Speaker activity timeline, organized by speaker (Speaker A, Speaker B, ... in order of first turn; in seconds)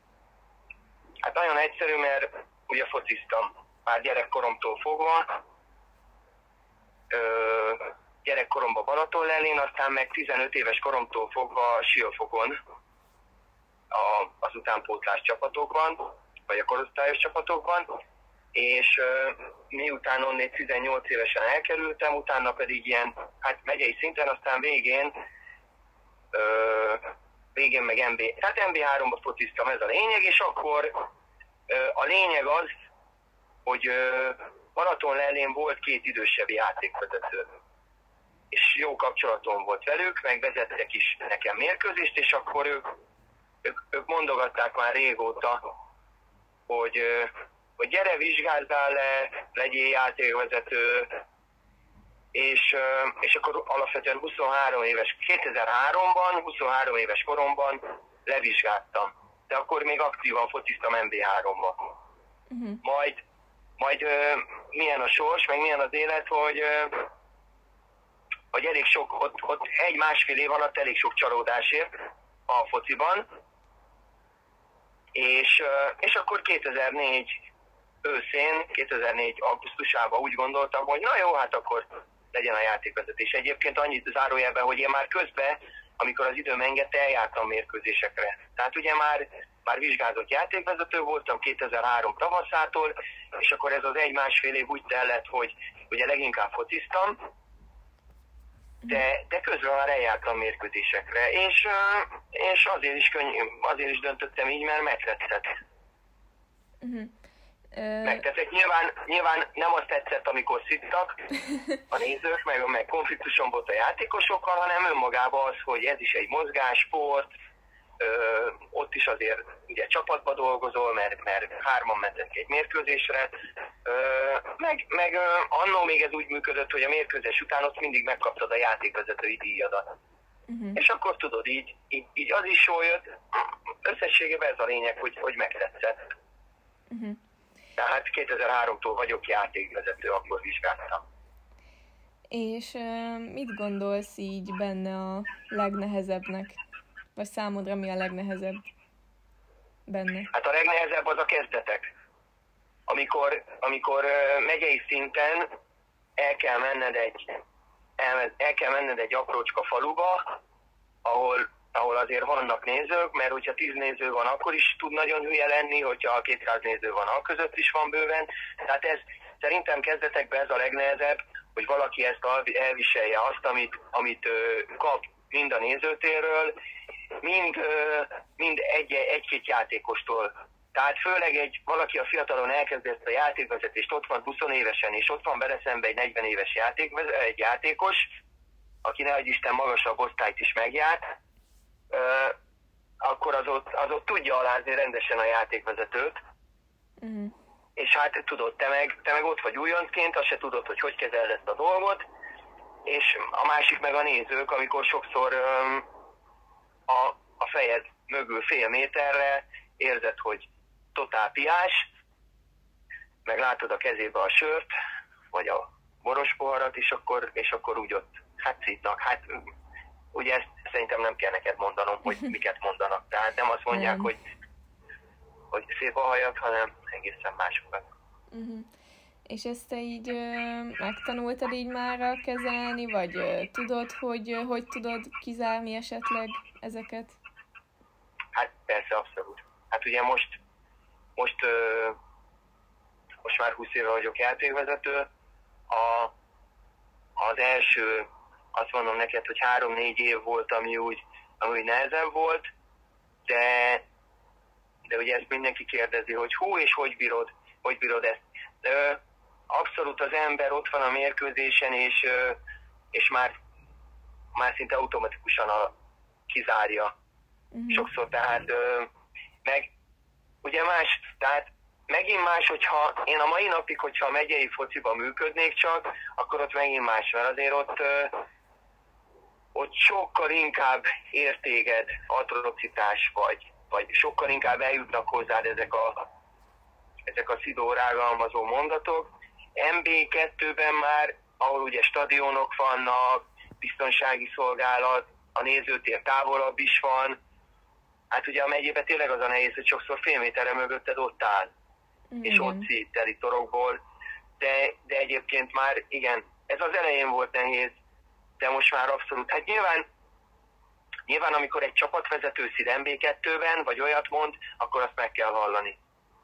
Speaker A: 1.2-5.4, 7.1-12.6, 13.9-18.0, 18.5-25.1, 26.3-31.1, 31.7-32.7, 33.6-37.5, 38.5-42.9, 43.6-45.6, 46.7-51.2, 52.3-61.9, 62.8-63.2, 63.8-67.1, 68.5-71.9, 72.5-73.2, 75.1-77.4, 78.0-97.2, 98.9-105.5, 108.0-111.3, 111.9-117.3, 118.0-123.3, 123.8-129.9, 130.8-133.0, 133.8-136.0, 137.8-141.0, 150.3-151.9, 152.9-155.5, 156.2-157.4, 158.0-160.3, 161.0-176.6, 177.2-188.1, 188.8-191.1, 191.9-192.3, 193.0-196.2, 197.8-202.0, 202.8-205.8, 206.9-211.9, 213.2-214.7, 215.3-219.4, 220.1-224.2, 225.5-227.9, 238.3-240.4, 241.2-242.0, 243.2-245.1, 245.7-246.1, 247.2-252.4, 253.3-253.8, 254.9-262.4, 262.9-263.4, 264.3-265.7, 266.3-266.9, 267.7-268.9, 269.4-269.7, 270.4-278.2, 279.5-286.1, 287.1-297.2, 298.1-301.5, 302.2-303.8, 304.4-307.8, 308.4-309.8, 311.1-315.8
Speaker B: 62.5-62.8, 106.8-107.1, 107.7-108.2, 130.5-130.8, 136.9-137.2, 142.3-146.6, 147.1-148.6, 149.9-150.3, 197.0-197.3, 223.7-224.1, 228.3-228.7, 229.3-237.2, 267.5-267.9, 302.1-302.6